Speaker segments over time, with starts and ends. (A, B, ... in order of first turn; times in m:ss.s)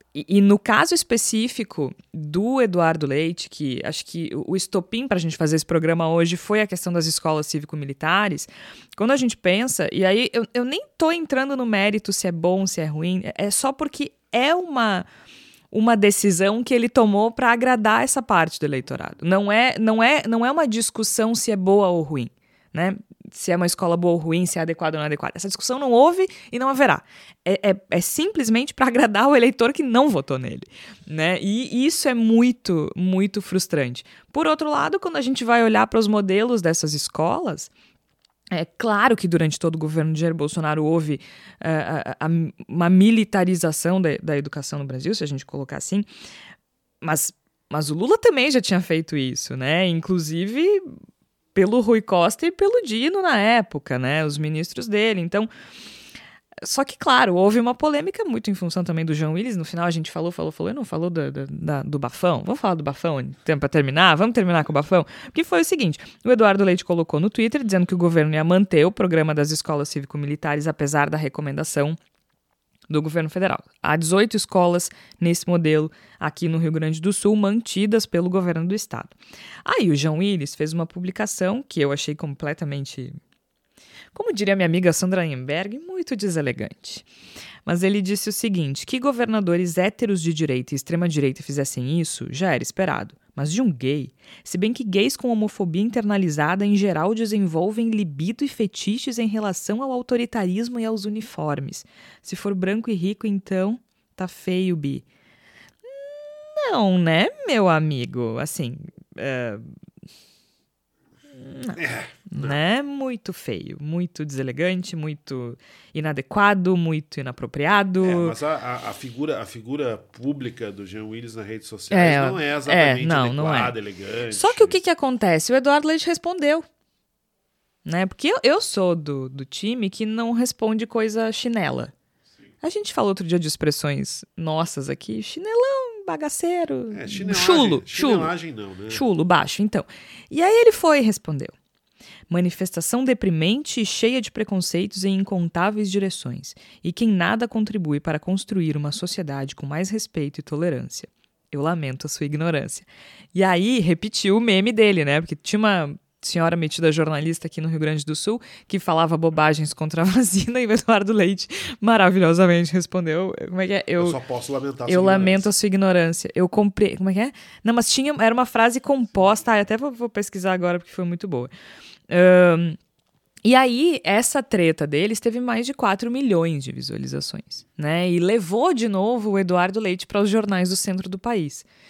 0:00.1-0:15.1 A
0:15.7-0:37.7 A
0:38.5-0:46.1 A
0:47.0-0:50.8 A
0:51.6-0:55.5 A
0:56.6-1:12.0 A
1:12.9-1:23.2 A
1:24.1-1:27.1 A
1:27.7-1:45.0 A
1:45.9-1:49.7 A
1:51.4-1:51.8 A
1:51.8-1:52.6 B
1:52.3-1:58.4 A
1:58.0-2:04.7 B
2:01.9-2:03.7 A
2:04.3-2:06.6 A
2:07.8-2:11.9 A
2:12.6-2:18.3 A
2:16.9-2:19.0 B
2:18.9-2:21.5 A
2:22.3-2:44.2 A
2:44.0-2:45.5 B
2:44.9-2:51.5 A
2:52.1-2:52.8 A
2:53.4-3:01.6 A